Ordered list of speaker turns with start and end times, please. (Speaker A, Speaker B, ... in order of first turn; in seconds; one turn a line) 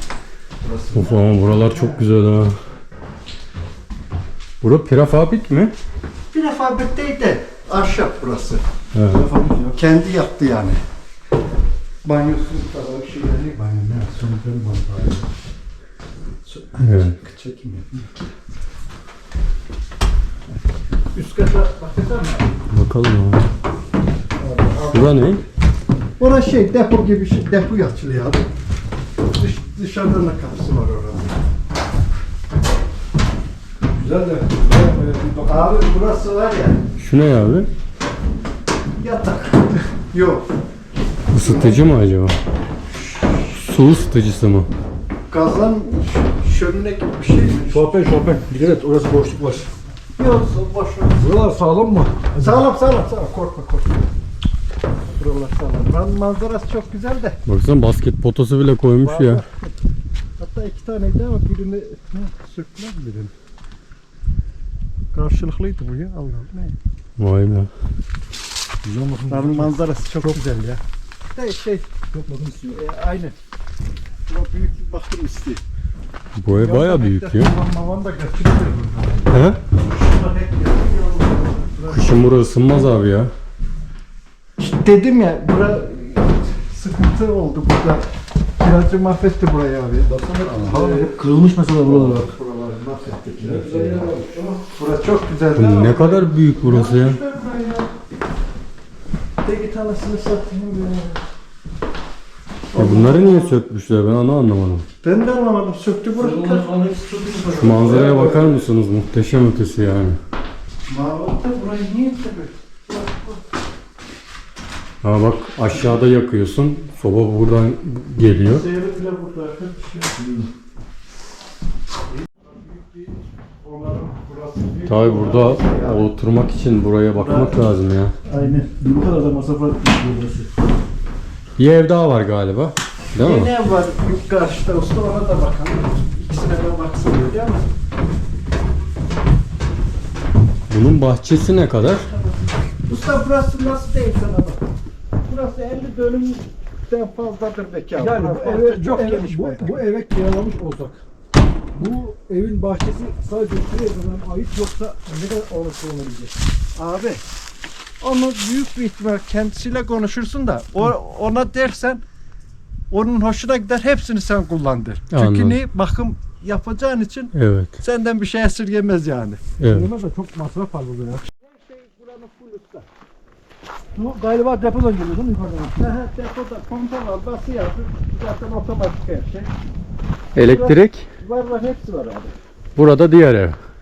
Speaker A: 0.6-2.0
Speaker B: 0.9-2.6
Speaker B: 4.6-5.7
Speaker A: 6.3-8.6
Speaker B: 8.9-9.2
Speaker C: 9.1-9.8
Speaker A: 9.7-10.8
Speaker A: 12.0-15.3
Speaker A: 16.4-18.2
Speaker B: 16.8-17.1
Speaker A: 21.1-22.5
Speaker B: 22.7-23.5
Speaker A: 24.4-25.4
Speaker B: 24.9-25.4
Speaker A: 26.2-28.4
Speaker A: 29.3-31.4
Speaker C: 33.8-35.7
Speaker A: 35.4-36.8
Speaker B: 37.0-37.7
Speaker A: 39.0-40.5
Speaker B: 41.3-42.4
Speaker A: 41.3-41.8
Speaker B: 43.4-44.7
Speaker A: 45.3-47.8
Speaker C: 47.7-49.7
Speaker A: 50.2-51.4
Speaker C: 51.2-52.6
Speaker A: 52.4-54.1
Speaker A: 55.2-57.4
Speaker B: 57.5-59.4
Speaker A: 59.0-59.7
Speaker A: 60.4-63.3
Speaker A: 65.1-66.8
Speaker B: 67.2-67.7
Speaker C: 68.8-70.4
Speaker A: 69.3-70.8
Speaker A: 71.3-71.9
Speaker C: 72.1-72.8
Speaker A: 72.7-73.3
Speaker A: 74.3-75.6
Speaker B: 76.4-77.5
Speaker A: 76.5-82.6
Speaker B: 79.3-79.6
Speaker B: 81.9-83.3
Speaker A: 84.6-88.0
Speaker A: 88.6-91.2
Speaker C: 90.1-92.3
Speaker A: 91.8-94.1
Speaker C: 93.4-94.6
Speaker A: 94.6-97.9
Speaker B: 95.5-97.2
Speaker A: 99.4-101.2
Speaker A: 102.7-103.5
Speaker B: 102.7-104.8
Speaker A: 105.0-106.7
Speaker C: 106.2-108.7
Speaker A: 107.5-108.5
Speaker B: 107.5-110.2
Speaker A: 110.9-113.4
Speaker B: 115.0-118.6
Speaker A: 118.4-120.1
Speaker C: 120.1-120.5
Speaker A: 122.3-126.1
Speaker B: 124.9-128.2
Speaker A: 127.1-127.7
Speaker C: 128.3-130.5
Speaker A: 128.3-128.6
Speaker B: 131.6-133.5
Speaker A: 133.2-137.7
Speaker B: 140.7-142.1
Speaker A: 142.1-144.7
Speaker A: 145.2-149.8
Speaker C: 148.0-151.0
Speaker C: 151.7-156.4
Speaker A: 156.8-157.2
Speaker A: 158.0-162.0
Speaker A: 162.9-169.4
Speaker B: 165.1-165.6
Speaker B: 167.3-167.7
Speaker B: 169.6-169.9
Speaker C: 169.7-171.2
Speaker A: 171.4-172.9
Speaker C: 173.9-175.8
Speaker A: 175.8-179.5
Speaker B: 180.3-181.1
Speaker A: 180.4-182.3
Speaker B: 182.8-183.6